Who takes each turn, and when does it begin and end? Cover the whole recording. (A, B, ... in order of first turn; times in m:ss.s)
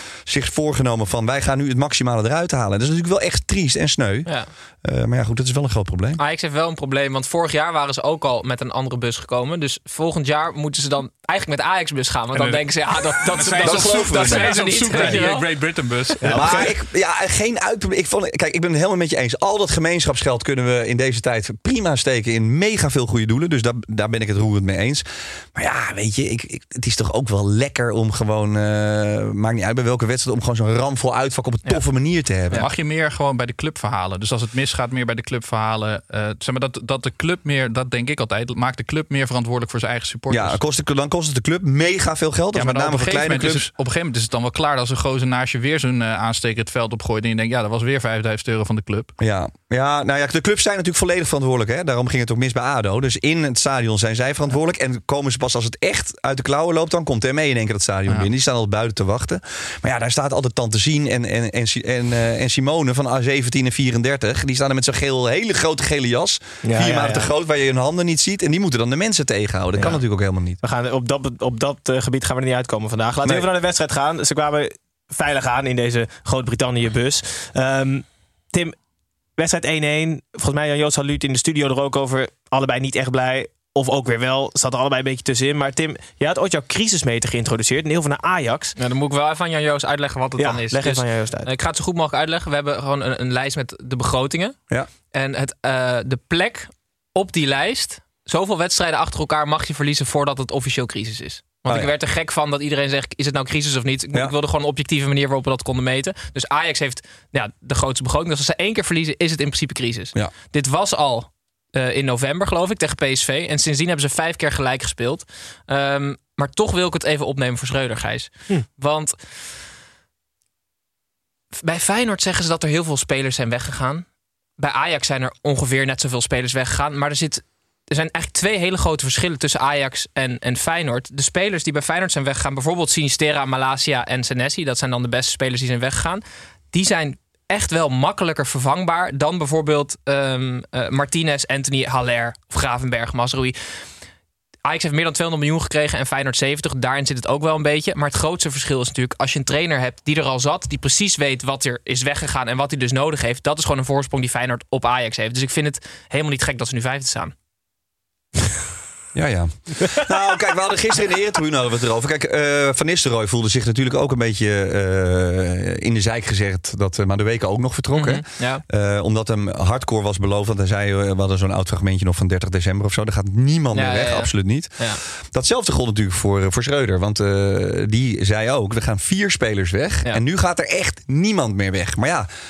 0:00.3-0:06.2 A
0:06.2-0:15.5 B
0:12.3-0:16.7 C
0:13.6-0:15.2 A
0:16.2-0:16.6 D
0:16.3-0:25.0 A
0:25.6-0:32.7 A
0:32.5-0:40.6 C
0:40.3-0:43.7 A
0:42.6-0:49.1 C
0:49.2-1:10.6 A
1:06.6-1:07.3 D
1:09.8-1:10.0 D
1:10.6-1:18.8 D
1:13.2-1:13.5 A
1:19.4-1:28.7 D
1:28.8-1:34.6 B
1:30.4-1:31.5 D
1:35.1-1:59.4 B
1:41.7-1:41.9 A
2:01.6-2:04.1 B
2:04.6-2:23.6 B
2:24.7-2:37.3 B
2:39.1-3:02.3 A
2:47.9-2:48.6 B
2:53.7-2:55.0 B